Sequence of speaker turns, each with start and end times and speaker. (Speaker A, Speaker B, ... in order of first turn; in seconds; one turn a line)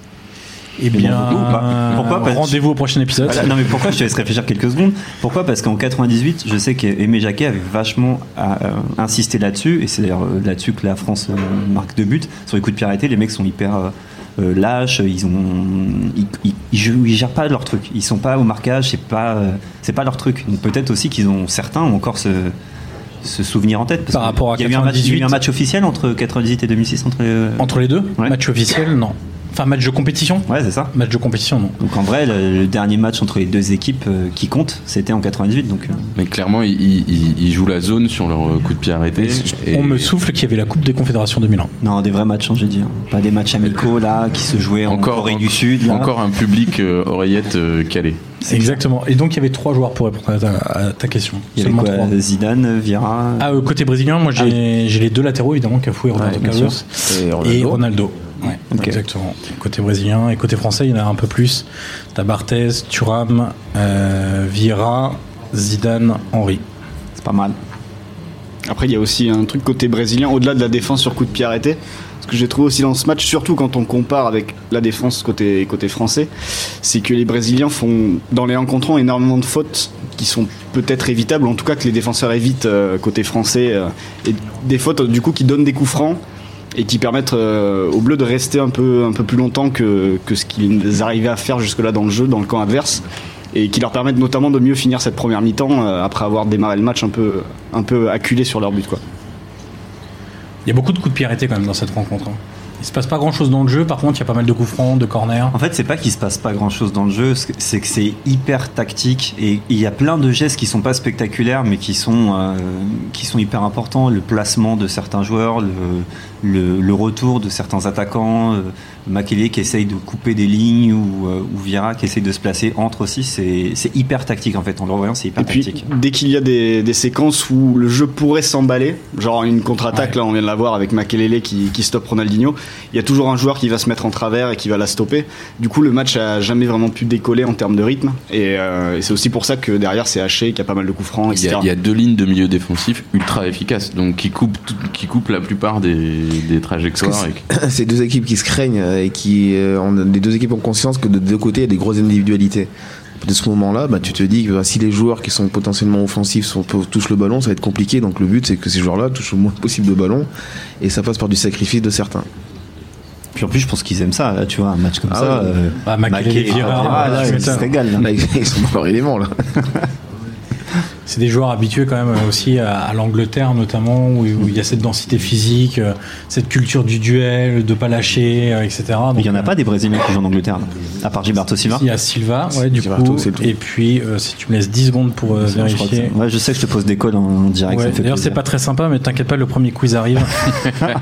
Speaker A: 0.8-3.5
Speaker B: 0.9-2.6
Speaker B: 3.2-22.6
Speaker B: 23.2-28.4
Speaker A: 24.1-25.4
Speaker A: 27.6-31.8
Speaker B: 30.5-30.9
Speaker B: 31.8-36.0
Speaker C: 36.2-40.1
Speaker A: 39.6-41.7
Speaker B: 41.8-46.1
Speaker C: 44.9-48.3
Speaker A: 48.5-52.1
Speaker B: 48.5-48.8
Speaker B: 51.6-53.6
Speaker A: 53.4-66.6
Speaker D: 56.1-57.9
Speaker B: 56.4-56.8
Speaker B: 58.7-59.0
Speaker B: 67.2-67.6
Speaker E: 68.7-86.2
Speaker E: 86.8-99.0
Speaker A: 100.7-105.5
Speaker B: 105.5-125.8
Speaker E: 125.4-141.7
Speaker C: 141.3-147.4
Speaker D: 147.0-160.3
Speaker D: 160.8-162.3
Speaker B: 163.3-168.1
Speaker D: 165.1-165.6
Speaker A: 165.8-167.7
Speaker D: 166.5-169.5
Speaker A: 171.1-179.6
Speaker B: 179.2-181.9
Speaker A: 181.7-186.1
Speaker D: 182.5-183.6
Speaker B: 185.4-188.4
Speaker A: 187.7-190.9